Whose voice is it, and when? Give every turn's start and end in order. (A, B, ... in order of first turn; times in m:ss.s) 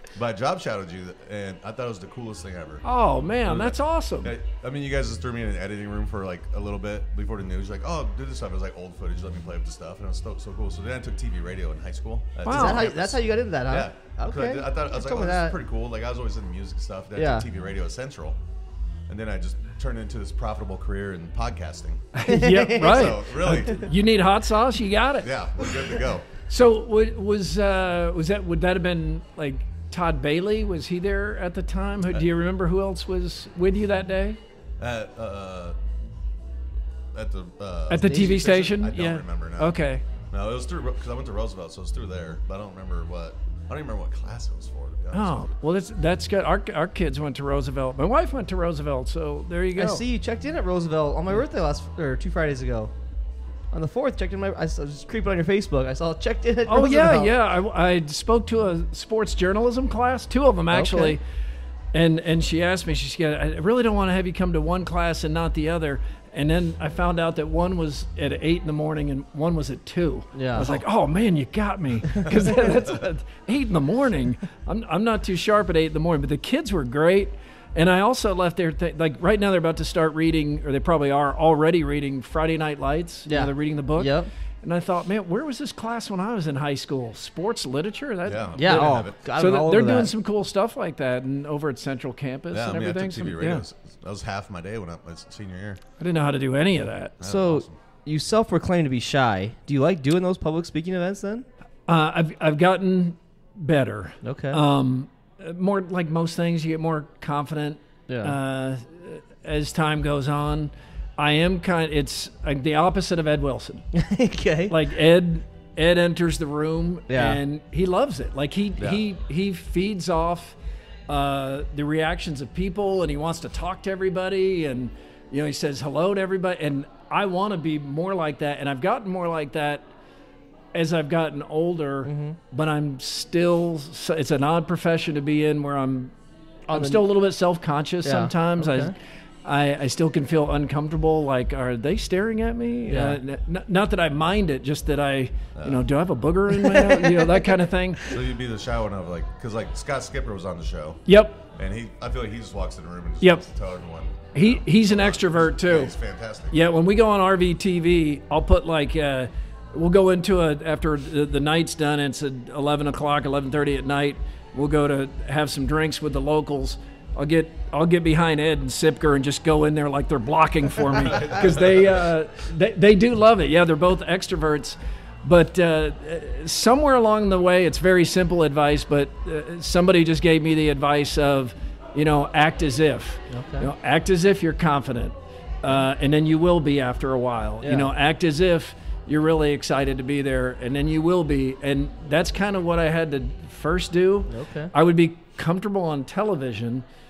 0:00.1-0:02.8 A
0:02.8-0:04.3 B
0:03.4-0:18.4 A
0:12.4-0:12.8 B
0:12.5-0:15.6 C
0:17.2-0:17.4 C
0:19.1-0:22.1 A
0:22.2-0:25.3 B
0:22.3-0:23.2 C
0:22.7-0:23.9 A
0:25.2-0:26.3 A
0:26.5-0:34.4 B
0:34.8-0:35.8 A
0:37.1-0:39.8 A
0:37.9-0:40.0 B
0:40.3-0:45.5 A
0:45.1-0:50.0 B
0:49.7-0:52.9 C
0:53.7-0:57.3 C
0:56.7-1:01.2 B
1:00.7-1:01.2 C
1:01.9-1:33.6 B
1:10.3-1:10.7 C
1:23.3-1:24.3 C
1:28.2-1:29.2 A
1:28.6-1:30.1 C
1:32.5-1:35.8 A
1:36.0-1:37.2 B
1:37.2-1:37.8 A
1:37.2-1:41.5 C
1:41.9-1:53.9 B
1:44.2-1:44.6 C
1:48.1-1:48.4 C
1:54.0-1:54.8 C
1:54.7-2:00.6 B
1:57.1-1:57.4 C
2:01.1-2:09.8 B
2:10.7-2:16.1 B
2:12.0-2:12.4 C
2:16.7-2:18.9 B
2:16.7-2:17.0 C
2:18.0-2:18.9 C
2:19.4-2:28.0 B
2:22.9-2:23.2 C
2:25.6-2:25.8 A
2:26.6-2:27.5 C
2:28.1-2:36.6 A
2:31.1-2:31.4 B
2:34.4-2:35.9 B
2:36.5-3:16.8 B
2:51.1-2:51.8 A
3:03.3-3:03.7 C
3:07.6-3:07.9 C
3:14.3-3:14.7 C